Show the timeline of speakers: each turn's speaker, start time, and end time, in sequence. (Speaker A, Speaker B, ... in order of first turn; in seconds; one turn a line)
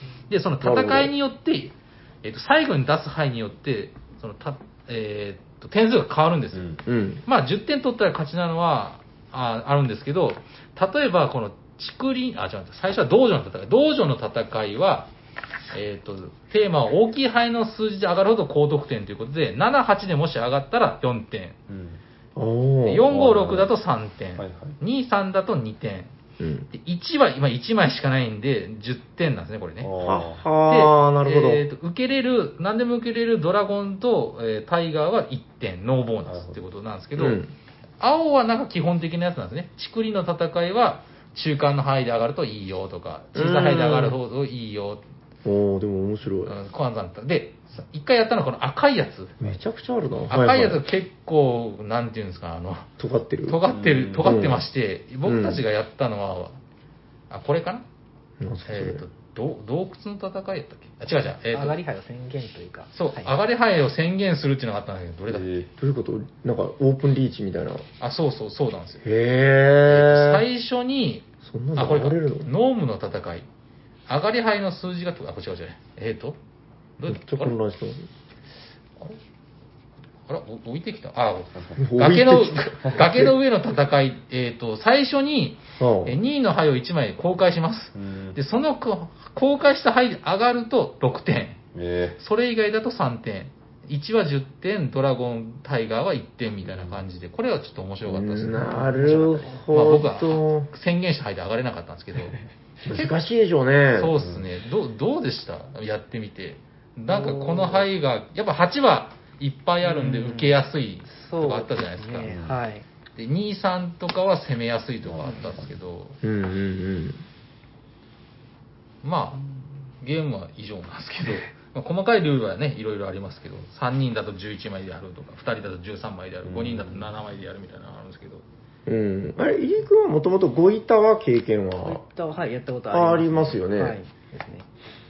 Speaker A: 0.3-6.7
Speaker B: 0.6-1.1
Speaker C: 6.5-6.8
Speaker B: 6.9-7.2
Speaker A: 7.2-15.1
Speaker A: 15.7-21.6
Speaker C: 21.7-22.0
Speaker B: 22.4-23.1
Speaker A: 22.8-26.1
Speaker C: 23.1-23.7
Speaker C: 24.4-24.8
Speaker B: 26.4-26.7
Speaker A: 26.7-29.9
Speaker C: 29.8-30.4
Speaker B: 30.0-31.6
Speaker A: 30.7-37.4
Speaker C: 36.3-36.6
Speaker B: 37.2-37.5
Speaker A: 38.0-45.0
Speaker B: 43.3-44.2
Speaker B: 45.4-46.6
Speaker A: 46.5-49.4
Speaker B: 49.4-50.8
Speaker A: 50.3-52.9
Speaker B: 53.0-53.6
Speaker A: 53.5-56.6
Speaker C: 53.7-54.4
Speaker B: 54.2-54.6
Speaker B: 55.2-55.6
Speaker A: 57.3-57.8
Speaker B: 58.4-59.0
Speaker A: 58.7-61.8
Speaker D: 61.5-63.3
Speaker A: 62.9-65.5
Speaker C: 65.3-65.7
Speaker B: 65.8-67.8
Speaker A: 68.0-69.0
Speaker B: 69.0-70.4
Speaker A: 69.9-73.5
Speaker B: 71.4-72.5
Speaker A: 74.1-76.4
Speaker A: 77.0-77.5
Speaker B: 77.1-78.1
Speaker A: 80.3-91.6
Speaker C: 81.5-81.8
Speaker B: 81.8-83.3
Speaker B: 85.8-86.2
Speaker C: 87.9-88.4
Speaker C: 91.7-92.2
Speaker A: 92.2-98.7
Speaker C: 96.6-97.0
Speaker B: 98.1-100.7
Speaker D: 98.6-99.6
Speaker A: 99.7-102.4
Speaker B: 102.8-104.1
Speaker A: 103.9-112.3
Speaker C: 104.2-104.5
Speaker D: 107.1-107.9
Speaker D: 109.8-112.9
Speaker C: 112.2-112.6
Speaker A: 113.2-116.2
Speaker C: 115.0-115.7
Speaker B: 116.2-117.2
Speaker A: 119.0-119.4
Speaker A: 120.0-128.4
Speaker C: 126.4-127.1
Speaker B: 128.9-132.0
Speaker D: 131.8-134.7
Speaker B: 132.9-134.0